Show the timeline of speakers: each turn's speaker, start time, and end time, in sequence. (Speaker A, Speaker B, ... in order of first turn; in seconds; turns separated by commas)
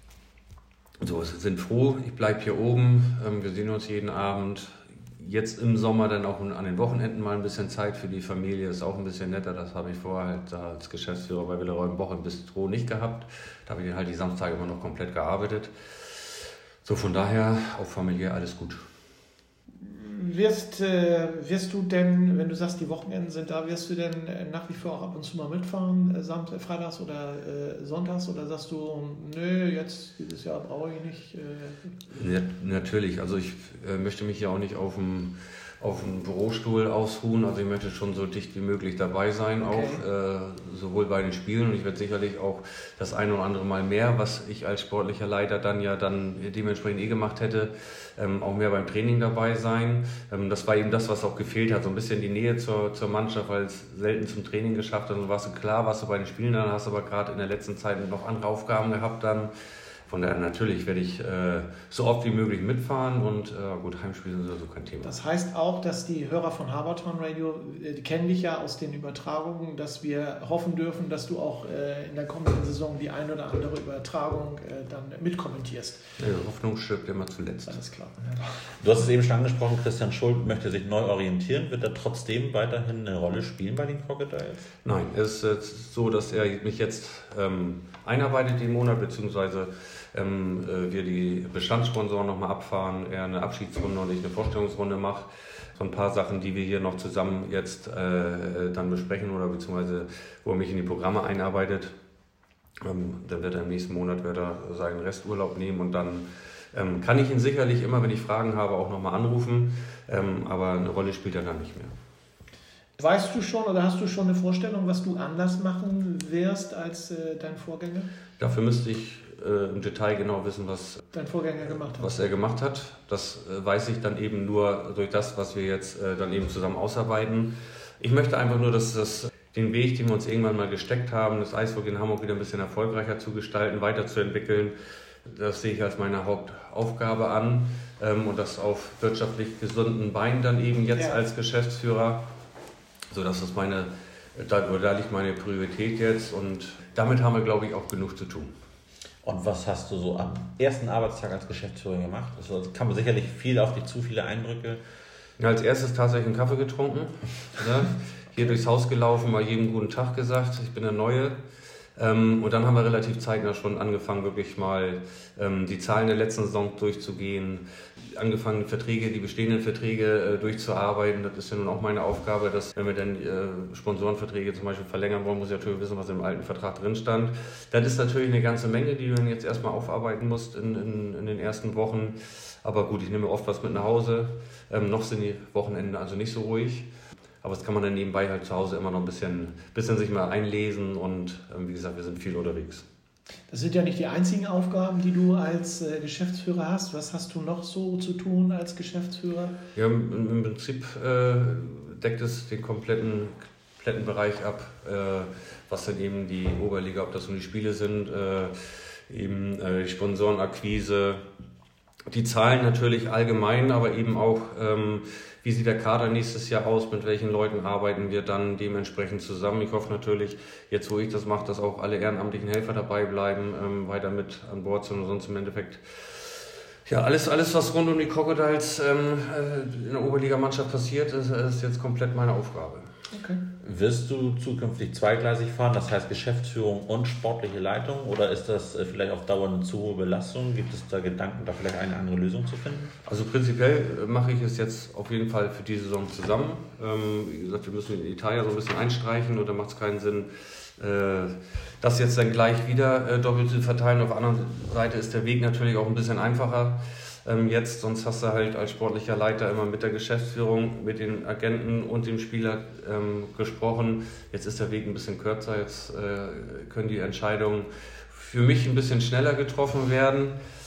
Speaker A: 1.0-18.8, Speaker B: 19.8-32.0, Speaker A: 32.1-59.5, Speaker B: 39.7-40.0, Speaker A: 60.1-65.2, Speaker B: 65.0-76.0, Speaker A: 76.2-77.8, Speaker B: 77.7-78.7, Speaker C: 78.8-84.7, Speaker A: 84.8-102.0, Speaker A: 102.8-111.9, Speaker B: 113.0-118.1, Speaker A: 118.4-121.1, Speaker B: 121.1-122.2, Speaker A: 121.9-142.3, Speaker A: 143.1-148.5, Speaker C: 149.2-154.8, Speaker A: 155.4-161.4, Speaker A: 162.0-186.9, Speaker A: 187.4-192.9, Speaker B: 193.5-199.6, Speaker A: 199.8-211.2, Speaker A: 212.1-232.9, Speaker B: 233.1-233.4, Speaker C: 233.6-242.9, Speaker A: 243.1-270.4